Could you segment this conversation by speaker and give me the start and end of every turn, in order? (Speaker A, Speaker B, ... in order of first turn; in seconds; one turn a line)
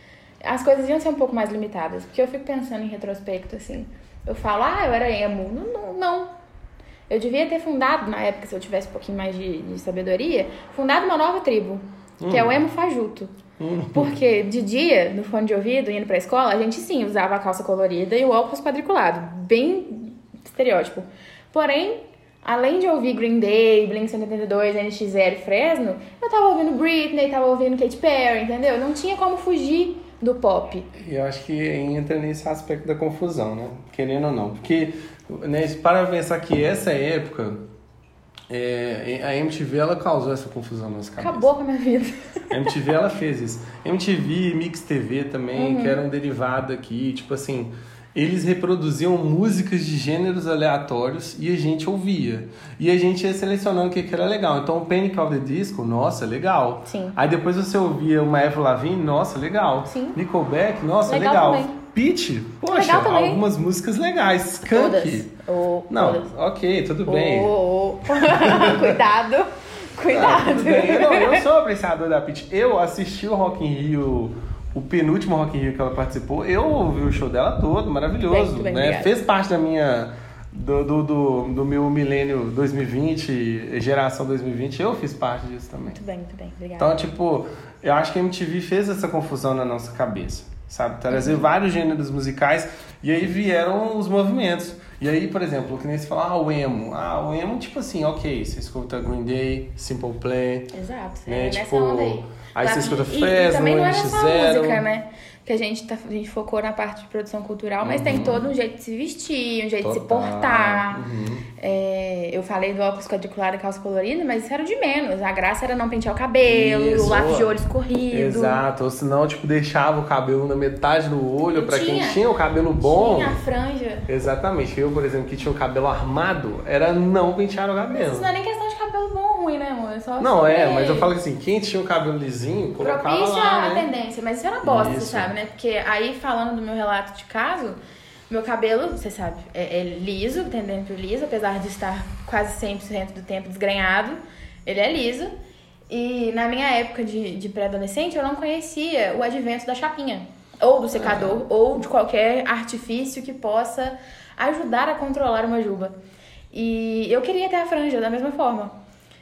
Speaker A: 0.4-6.3
Speaker A: 7.1-13.3
Speaker B: 12.2-12.6
Speaker B: 13.6-14.2
Speaker A: 13.9-30.9
Speaker B: 30.9-37.6
Speaker B: 38.5-41.5
Speaker A: 41.2-42.7
Speaker B: 42.5-65.3
Speaker A: 45.5-46.0
Speaker A: 56.9-57.2
Speaker A: 59.9-60.2
Speaker A: 61.0-61.7
Speaker A: 62.7-63.4
Speaker A: 64.6-66.3
Speaker B: 65.9-67.5
Speaker A: 67.0-71.5
Speaker B: 68.1-69.0
Speaker B: 70.1-86.0
Speaker A: 78.3-79.2
Speaker A: 85.9-87.0
Speaker B: 86.8-100.7
Speaker A: 91.1-91.5
Speaker A: 100.7-111.0
Speaker B: 101.3-104.8
Speaker B: 107.8-108.5
Speaker B: 109.8-111.5
Speaker A: 111.6-118.6
Speaker B: 116.4-117.5
Speaker B: 118.1-123.4
Speaker A: 121.5-122.2
Speaker A: 122.8-124.1
Speaker B: 124.1-128.3
Speaker A: 127.9-131.1
Speaker B: 130.2-133.9
Speaker A: 132.8-137.8
Speaker B: 134.6-135.3
Speaker A: 138.3-145.3
Speaker A: 145.9-155.9
Speaker B: 150.9-151.4
Speaker A: 156.5-158.7